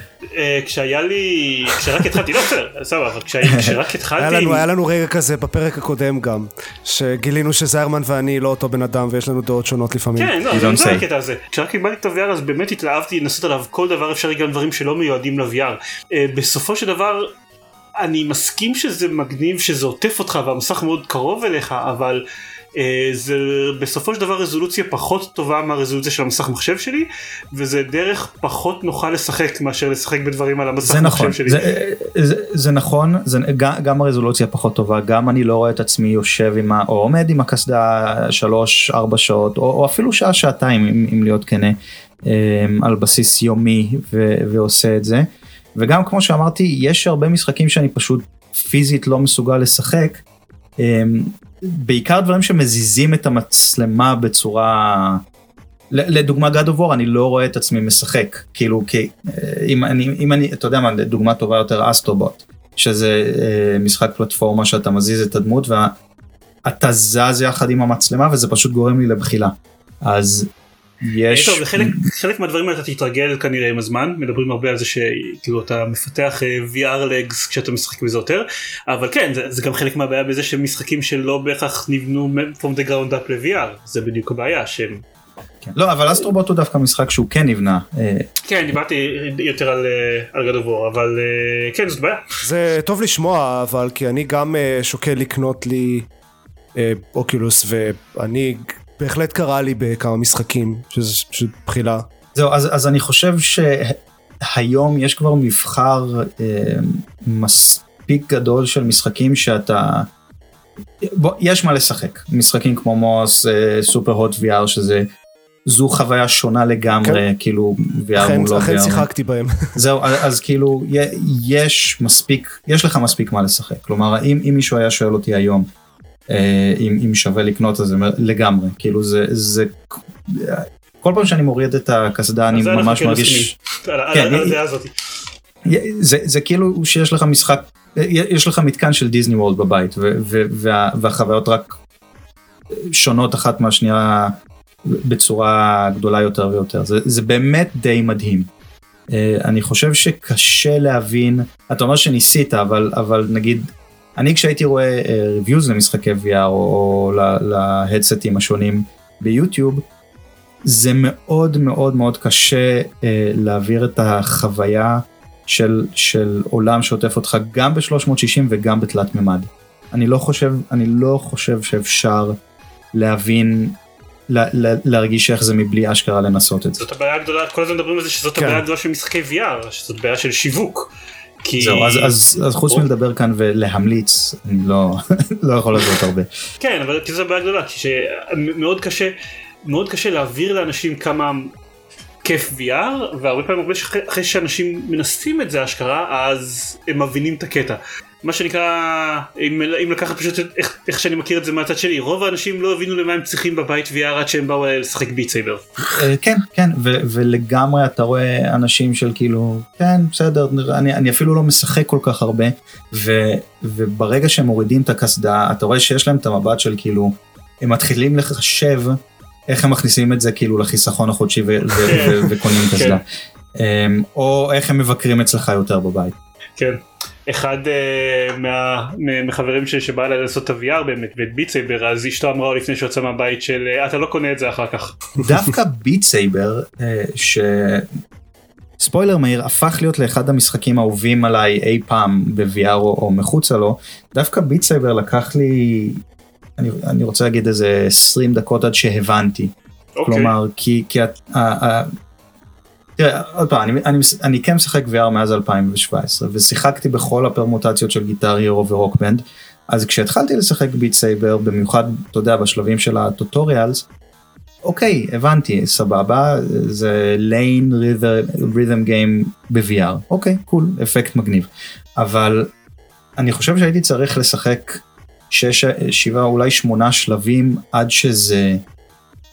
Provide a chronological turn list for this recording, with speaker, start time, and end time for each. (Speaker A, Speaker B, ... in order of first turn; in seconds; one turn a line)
Speaker A: 0.3-4.7
Speaker B: 3.4-3.7
Speaker C: 4.2-10.6
Speaker A: 10.2-17.3
Speaker B: 10.5-11.0
Speaker A: 18.0-22.2
Speaker A: 22.8-31.6
Speaker B: 30.8-50.2
Speaker B: 50.8-55.2
Speaker B: 55.9-65.9
Speaker B: 66.7-70.5
Speaker B: 71.0-72.0
Speaker A: 71.3-85.0
Speaker B: 85.6-88.3
Speaker A: 88.4-92.2
Speaker C: 92.4-96.1
Speaker C: 96.7-102.0
Speaker B: 102.3-110.1
Speaker B: 111.0-115.1
Speaker B: 115.7-119.1
Speaker C: 118.2-119.8
Speaker B: 119.7-125.7
Speaker B: 126.3-133.5
Speaker A: 132.5-134.9
Speaker B: 134.1-134.5
Speaker B: 135.6-141.8
Speaker B: 142.9-144.3
Speaker B: 144.9-148.5
Speaker B: 149.1-159.8
Speaker B: 160.7-172.4
Speaker B: 172.9-173.8
Speaker B: 174.3-176.8
Speaker A: 176.8-180.9
Speaker C: 178.3-178.6
Speaker A: 181.4-182.2
Speaker B: 181.6-186.3
Speaker A: 186.6-189.1
Speaker A: 189.7-191.5
Speaker A: 192.2-205.7
Speaker B: 205.9-223.0
Speaker A: 221.8-223.0
Speaker B: 223.5-226.1
Speaker A: 226.6-235.0
Speaker B: 235.2-237.9
Speaker B: 238.8-246.0
Speaker B: 246.6-251.9
Speaker A: 249.9-250.3
Speaker B: 253.0-263.9
Speaker B: 264.6-272.5
Speaker B: 273.2-278.6